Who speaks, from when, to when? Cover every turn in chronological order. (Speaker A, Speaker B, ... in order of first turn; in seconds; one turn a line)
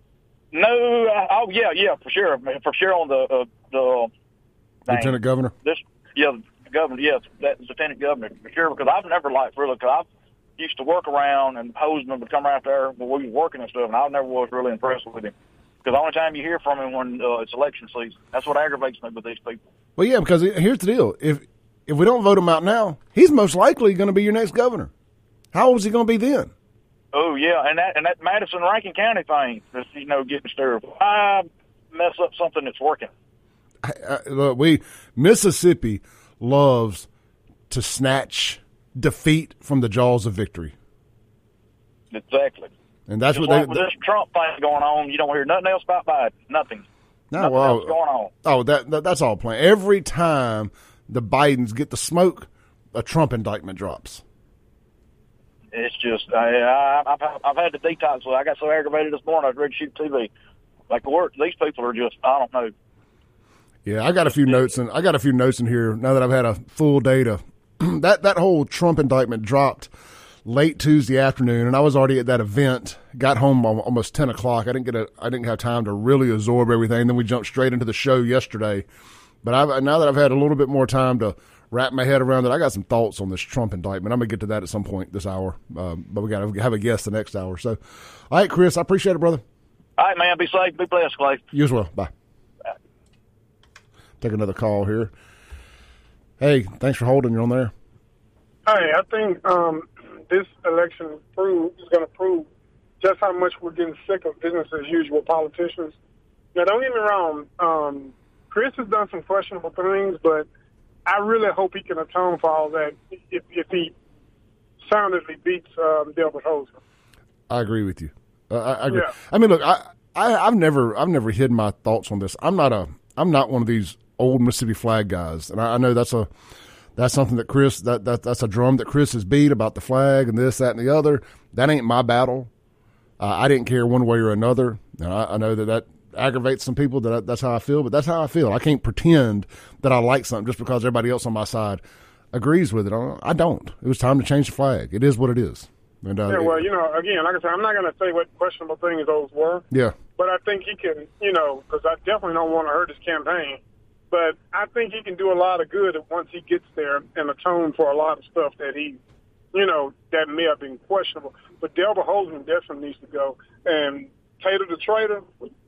Speaker A: 0.5-4.1
Speaker A: 4.9-10.1
Speaker B: 4.9-5.5
Speaker A: 10.6-15.3
Speaker A: 15.8-19.6
Speaker B: 20.0-24.9
Speaker B: 25.5-26.5
Speaker A: 27.1-33.1
Speaker B: 33.8-37.1
Speaker B: 37.7-40.7
Speaker A: 42.1-42.7
Speaker B: 43.1-43.9
Speaker A: 43.3-48.3
Speaker B: 47.3-54.2
Speaker A: 55.7-60.3
Speaker A: 60.9-62.7
Speaker B: 63.9-69.9
Speaker B: 70.4-78.8
Speaker B: 79.4-87.8
Speaker B: 88.3-89.4
Speaker A: 90.0-91.4
Speaker B: 91.5-92.1
Speaker B: 94.2-95.1
Speaker B: 96.4-97.7
Speaker C: 98.7-102.5
Speaker C: 103.0-106.0
Speaker C: 106.5-110.5
Speaker C: 111.0-113.9
Speaker C: 114.8-116.7
Speaker B: 117.5-126.3
Speaker B: 127.0-132.5
Speaker B: 133.2-141.8
Speaker B: 142.3-146.6
Speaker C: 146.3-149.6
Speaker B: 149.7-149.9
Speaker C: 150.2-153.6
Speaker C: 154.1-159.0
Speaker C: 159.5-165.3